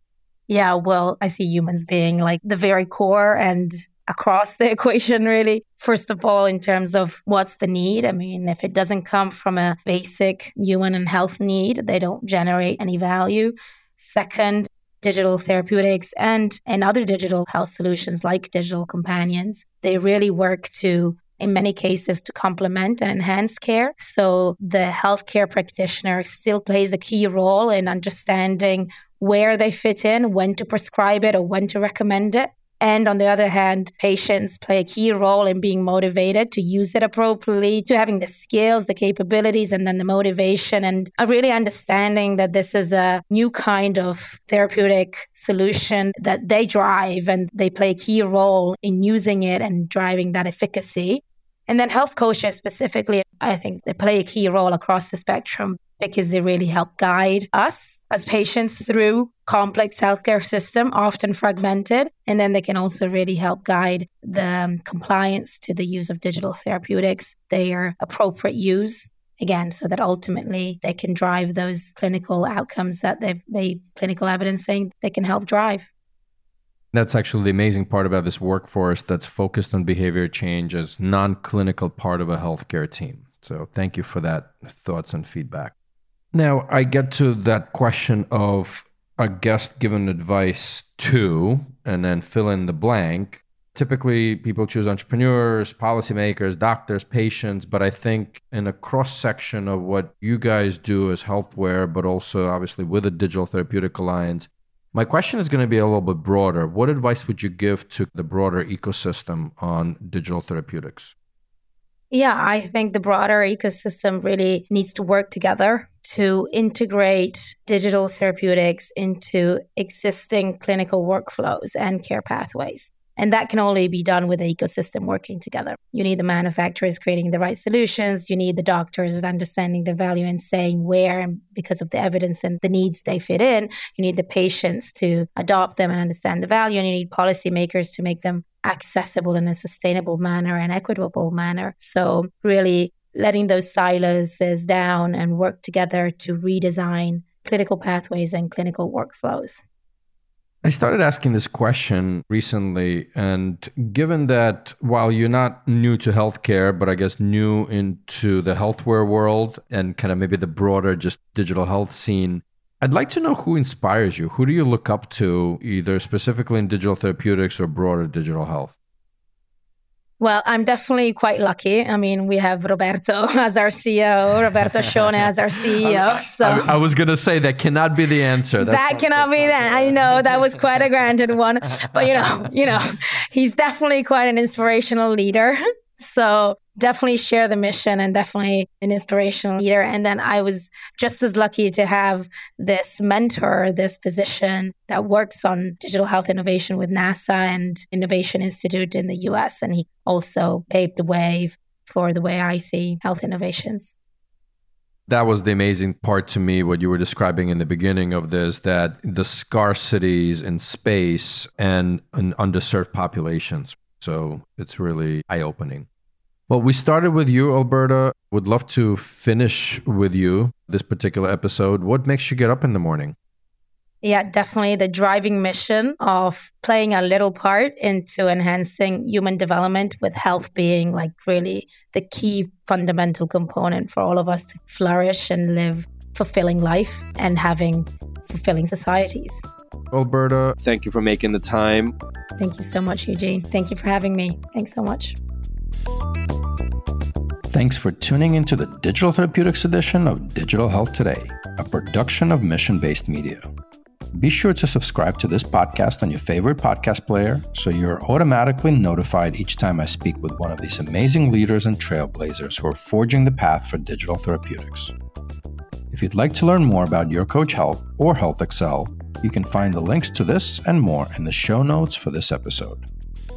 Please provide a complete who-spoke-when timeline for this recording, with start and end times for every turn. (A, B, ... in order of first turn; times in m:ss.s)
0:00.5-1:15.9 A
1:16.9-1:25.7 B
1:26.3-1:51.1 B
1:52.1-2:29.6 A
2:30.6-2:48.7 B
2:50.2-2:56.7 A
2:55.8-3:00.2 B
2:58.6-3:23.9 A
3:25.1-3:35.9 B
3:36.5-3:43.1 B
3:44.0-3:59.4 A
3:59.9-4:01.9 B
4:02.4-4:05.2 A
4:07.5-4:13.5 B
4:14.1-4:24.9 B
4:25.9-4:32.8 B